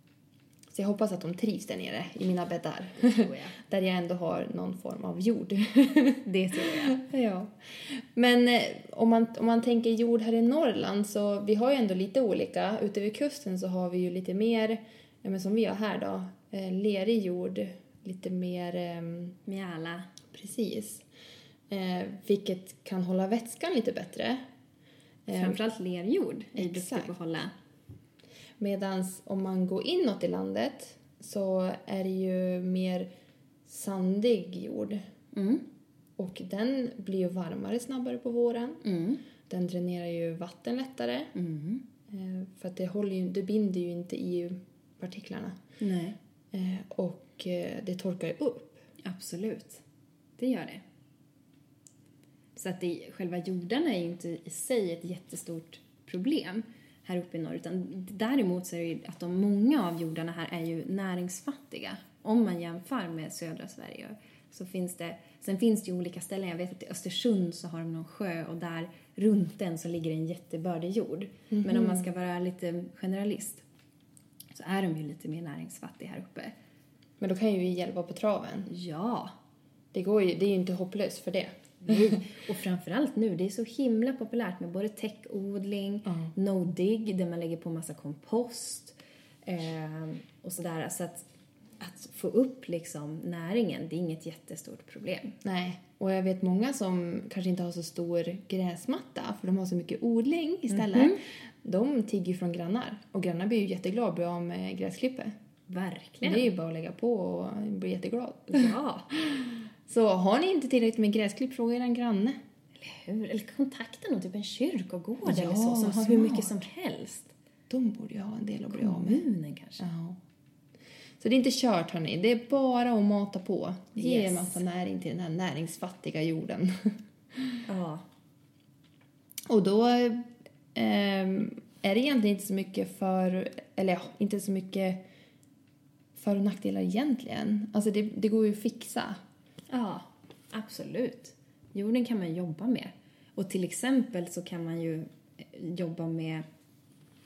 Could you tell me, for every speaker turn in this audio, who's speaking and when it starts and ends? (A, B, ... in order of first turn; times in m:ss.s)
0:00.7-0:19.4 A
0:03.0-0:03.6 B
0:06.2-0:07.0 B
0:19.5-0:20.1 B
0:20.3-0:21.0 A
0:21.7-0:24.4 A
0:25.3-0:25.6 A
0:25.3-0:27.5 B
0:26.6-0:27.1 A
0:28.6-0:33.1 A
0:33.6-0:35.0 A
0:35.3-0:35.6 B
0:36.2-0:38.8 A
0:38.8-0:39.2 B
0:39.5-0:41.3 A
0:41.4-0:41.8 B
0:42.1-0:45.6 A
0:45.8-0:46.2 B
0:46.5-0:48.8 A
0:49.0-0:49.8 B
0:50.4-0:50.8 B
0:52.6-1:13.6 B
1:11.5-1:12.1 A
1:14.5-1:16.5 B
1:17.2-1:18.7 A
1:18.7-1:19.3 B
1:19.9-1:22.1 A
1:21.8-1:31.3 B
1:26.1-1:26.3 A
1:31.8-1:35.4 B
1:35.4-1:45.3 A
1:40.7-1:41.2 B
1:45.7-1:46.5 B
1:46.2-1:52.4 A
1:48.5-1:49.1 B
1:52.8-1:57.3 B
1:55.2-1:56.6 A
1:57.7-1:59.2 A
1:58.7-1:59.9 B
1:59.8-2:00.2 A
2:01.2-2:07.6 A
2:04.0-2:04.6 B
2:07.7-2:08.0 B
2:09.5-2:15.0 A
2:16.2-2:19.2 A
2:19.7-2:26.4 B